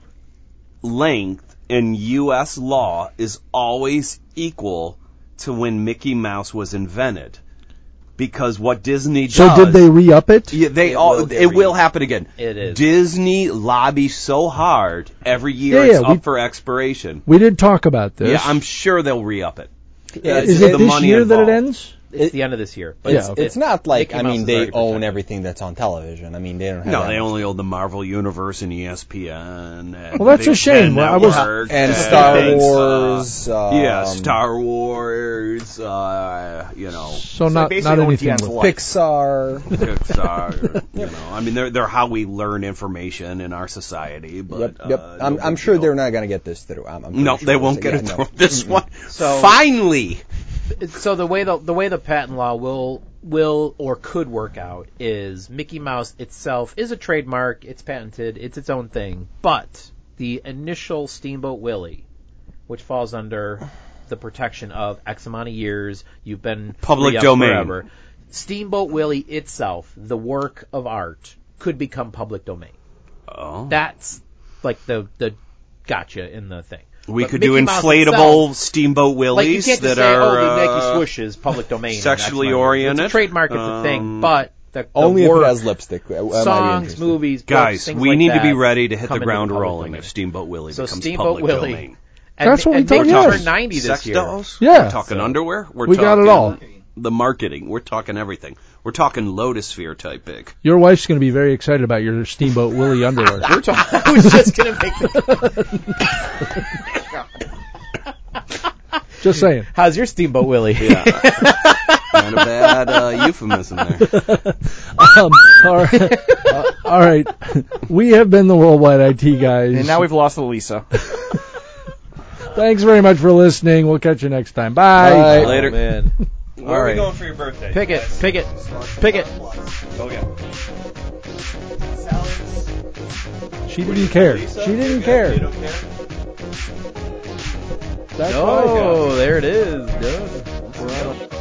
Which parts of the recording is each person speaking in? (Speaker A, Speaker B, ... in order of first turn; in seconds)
Speaker A: 0.8-7.4, 8.2-9.9, 10.5-17.2, 18.2-19.7, 20.2-21.6, 26.8-37.2, 39.7-45.9, 47.1-50.2, 66.8-67.8, 73.3-73.8, 77.1-81.0, 81.9-84.3, 87.5-92.0, 92.9-100.6, 110.8-111.6, 112.1-114.2, 125.2-125.9, 126.6-128.7, 129.9-130.3, 132.1-132.4, 133.8-135.8, 138.5-139.1, 140.8-141.2
Speaker B: 9.3-10.6, 15.7-16.2, 17.3-18.6, 20.2-21.9, 23.1-23.5, 30.2-31.8, 37.2-38.6, 92.4-93.5, 94.6-95.0, 95.9-96.6, 100.6-104.5, 105.1-106.0, 109.2-109.7, 114.1-120.1, 122.5-125.6, 133.7-135.5, 138.2-139.1
Speaker C: 10.8-11.8, 12.4-12.8, 22.1-25.2, 32.0-32.5, 49.1-49.5, 50.8-62.0, 62.7-72.7, 73.7-78.5, 79.3-85.6, 86.3-90.1, 90.7-91.9, 92.4-94.4, 95.1-95.3, 103.4-105.4, 109.7-113.2, 116.1-116.5, 125.3-127.1, 127.7-129.3, 138.2-141.1
Speaker D: 20.2-20.9, 23.1-27.3, 31.7-34.4, 38.6-39.9, 44.5-48.8, 85.0-87.2, 125.0-125.7
Speaker E: 31.2-32.7, 37.5-38.8, 119.7-120.9, 128.9-129.5, 132.2-132.6